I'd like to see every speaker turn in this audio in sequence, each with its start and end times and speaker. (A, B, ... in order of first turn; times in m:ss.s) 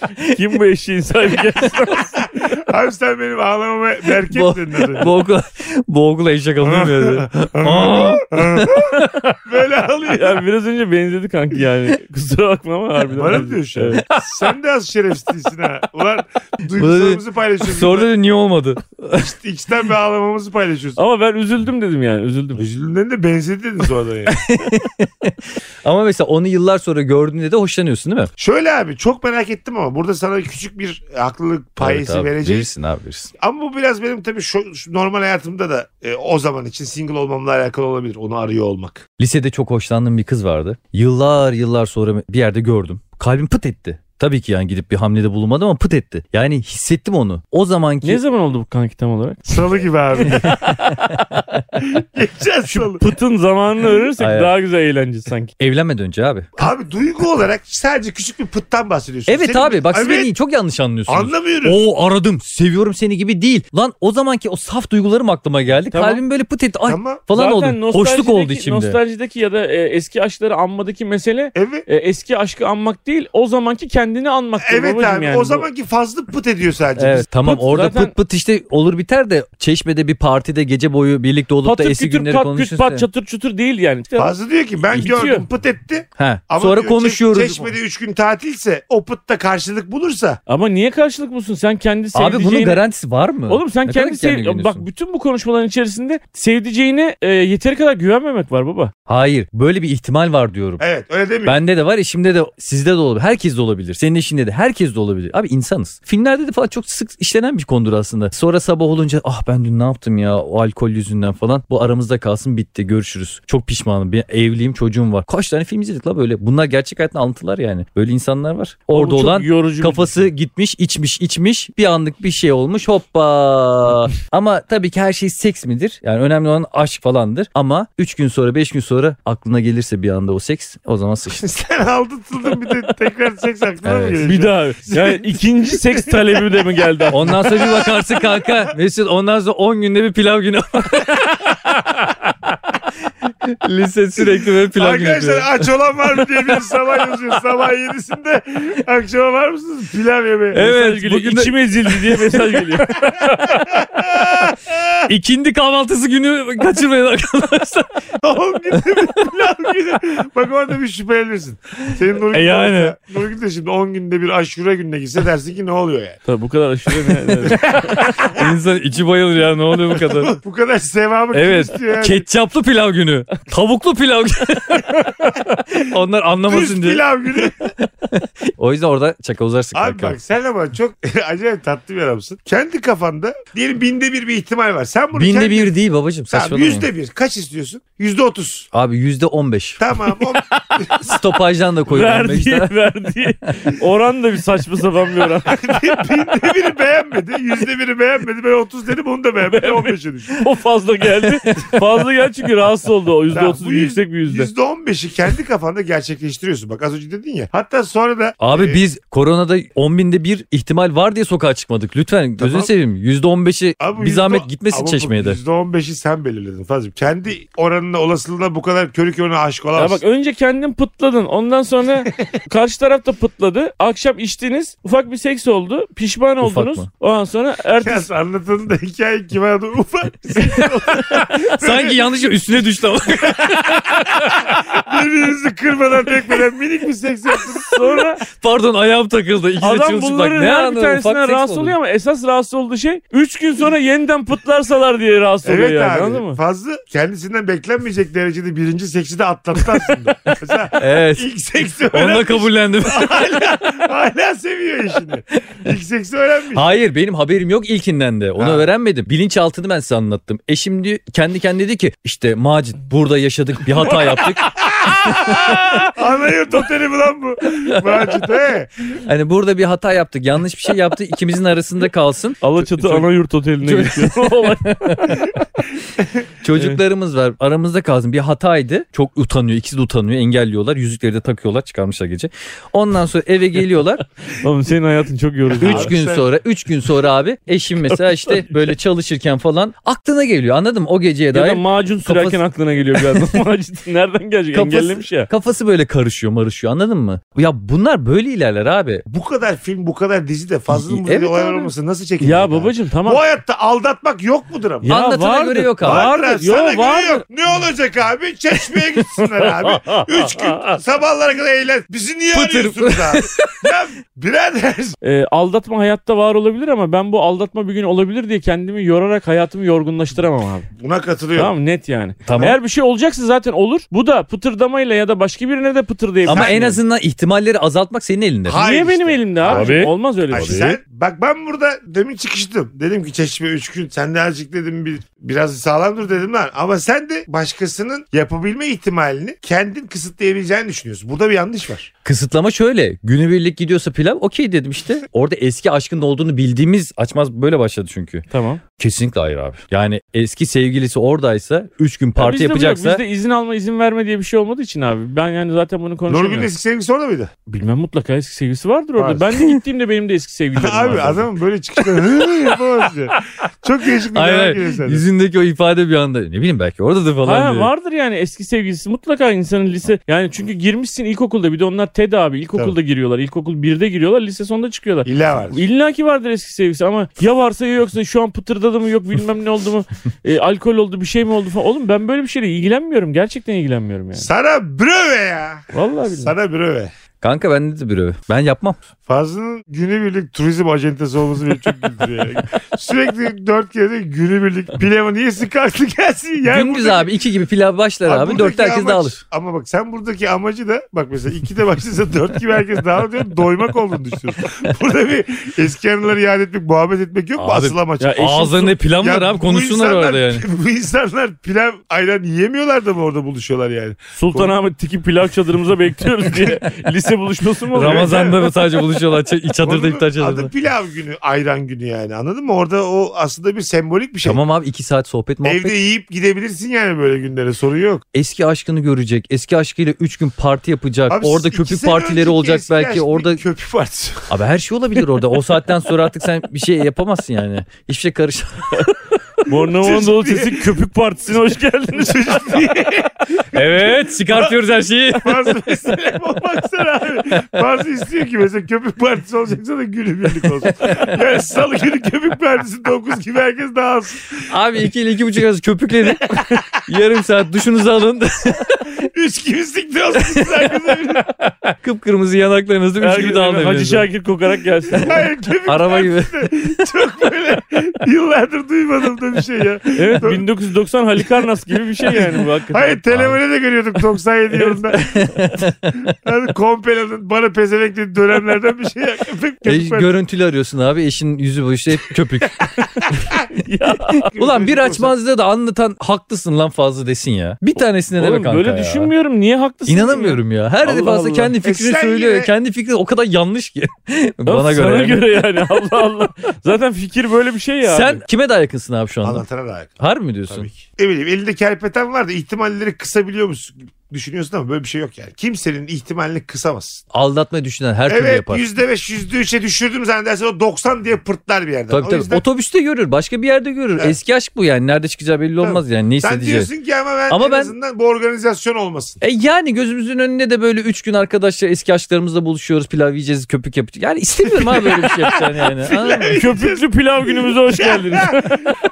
0:00.3-0:02.2 A
0:02.2-0:05.1 B
0:04.2-0:09.0 C
0:06.6-0:10.4 B
0:10.0-0:14.1 A
0:13.2-0:18.1 B
0:16.7-0:19.3 C
0:19.2-0:21.0 B
0:21.0-0:22.6 A
0:22.6-0:24.4 B
0:24.3-0:28.3 C
0:28.4-0:32.7 B
0:31.8-0:33.3 C
0:33.4-0:39.0 B
0:39.2-0:48.2 C
0:48.0-0:51.4 A
0:49.5-0:50.7 B
0:50.5-0:51.0 C
0:51.8-0:53.0 B
0:52.7-0:55.5 A
0:54.2-0:54.5 C
0:55.6-0:56.7 C
0:56.6-1:00.3 B
0:59.3-1:09.0 C
1:01.1-1:01.8 B
1:05.9-1:06.2 A
1:06.9-1:07.2 B
1:07.3-1:15.7 A
1:11.5-1:11.8 B
1:14.6-1:17.3 B
1:17.0-1:23.1 C
1:17.4-1:18.1 A
1:21.6-1:24.3 A
1:24.2-1:30.4 B
1:24.9-1:25.4 A
1:26.2-1:27.7 C
1:30.5-1:32.8 A
1:32.1-1:34.8 C
1:33.5-1:38.9 A
1:39.1-1:40.8 C
1:40.8-1:41.6 B
1:41.4-2:11.4 C
1:58.9-2:00.2 A
2:11.3-2:18.4 B
2:13.8-2:14.2 C
2:14.2-2:17.5 A
2:17.1-2:22.1 C
2:23.4-2:25.7 C
2:24.7-2:30.6 B
2:30.5-2:32.7 C
2:30.6-2:33.6 A
2:33.5-2:35.0 B
2:35.1-2:38.0 C
2:38.2-2:46.2 B
2:38.8-2:39.3 C
2:42.3-2:43.0 C
2:46.3-2:48.1 A
2:47.5-2:48.5 B
2:48.3-2:50.4 C
2:49.9-2:52.2 B
2:51.3-2:55.0 C
2:55.8-3:00.2 C
2:56.5-2:57.7 B
2:59.7-3:05.7 B
3:05.1-3:06.9 C
3:06.3-3:08.7 B
3:08.7-3:09.8 C
3:09.8-3:11.2 B
3:11.0-3:12.7 C
3:11.9-3:16.0 A
3:15.5-3:20.4 B
3:19.4-3:24.5 A
3:21.2-3:21.8 C
3:23.3-3:28.8 B
3:28.4-3:35.4 C
3:32.4-3:32.7 B
3:33.8-3:40.0 B
3:39.7-3:48.1 A
3:46.4-3:46.9 C
3:47.8-3:52.1 B
3:50.4-3:54.0 C
3:53.3-3:57.8 B
3:57.6-3:58.2 A
3:58.3-4:01.8 C
3:59.6-4:06.4 A
4:05.4-4:16.7 B
4:10.8-4:11.3 C
4:11.9-4:13.5 C
4:16.5-4:25.9 C
4:18.4-4:18.7 B
4:24.4-4:28.8 B
4:29.0-4:33.1 C
4:32.4-4:35.3 A
4:33.6-4:35.4 C
4:36.0-4:36.2 B
4:36.4-4:44.0 C
4:44.3-4:45.9 A
4:45.5-4:46.3 B
4:45.6-4:52.4 C
4:51.3-4:55.3 A
4:52.9-4:53.4 C
4:54.5-4:59.0 C
4:59.1-5:04.9 B
5:00.7-5:01.7 C
5:02.2-5:03.2 A
5:04.8-5:07.2 A
5:04.8-5:06.5 C
5:05.8-5:15.0 B
5:09.9-5:10.6 C
5:12.3-5:13.7 C
5:15.0-5:20.7 A
5:20.8-5:21.5 B
5:21.4-5:26.8 A
5:22.2-5:22.6 C
5:22.3-5:22.6 B
5:26.2-5:28.7 C
5:26.3-5:26.7 B
5:28.5-5:41.9 B
5:28.6-5:30.8 A
5:29.4-5:30.6 C
5:42.0-5:48.2 C
5:48.3-5:48.6 A
5:48.8-5:53.0 C
5:52.2-5:56.5 A
5:56.1-5:57.3 B
5:57.4-6:01.3 A
6:00.6-6:05.0 B
6:01.9-6:02.5 C
6:04.1-6:07.7 C
6:07.2-6:24.3 A
6:15.0-6:15.6 B
6:24.1-6:26.9 B
6:25.7-6:26.3 A
6:27.2-6:28.8 C
6:29.1-6:37.1 B
6:36.5-6:39.2 C
6:38.0-6:54.5 B
6:47.4-6:50.4 C
6:48.0-6:48.7 A
6:54.1-6:58.1 A
6:57.7-7:00.5 C
6:57.8-6:58.5 B
6:59.6-7:04.4 B
7:04.2-7:05.7 C
7:05.4-7:08.0 B
7:08.1-7:13.4 C
7:11.1-7:14.3 B
7:14.3-7:18.8 C
7:19.4-7:22.6 A
7:19.8-7:20.8 B
7:21.9-7:24.6 B
7:23.5-7:25.6 C
7:25.1-7:34.5 B
7:30.6-7:31.1 C
7:34.5-7:38.9 C
7:36.3-7:36.6 B
7:38.9-7:41.5 B
7:40.2-7:40.7 C
7:41.8-7:44.1 C
7:43.0-7:45.2 A
7:45.0-7:50.4 B
7:45.7-7:46.8 C
7:49.9-7:53.0 A
7:52.7-7:55.3 B
7:53.1-7:53.4 C
7:54.6-7:56.1 C
7:56.0-8:00.1 B
7:59.6-8:02.7 C
8:02.8-8:04.2 A
8:03.1-8:03.4 B
8:04.2-8:09.1 C
8:04.2-8:05.1 B
8:08.2-8:11.5 A
8:09.9-8:15.2 C
8:11.6-8:12.5 B
8:14.4-8:18.2 A
8:17.8-8:19.4 C
8:19.2-8:20.0 B
8:20.0-8:20.7 C
8:20.5-8:27.0 B
8:27.1-8:28.6 C
8:28.0-8:32.4 B
8:31.9-8:36.7 C
8:35.6-8:39.2 B
8:37.3-8:37.7 C
8:39.2-8:46.4 C
8:45.9-8:48.8 A
8:45.9-8:48.6 B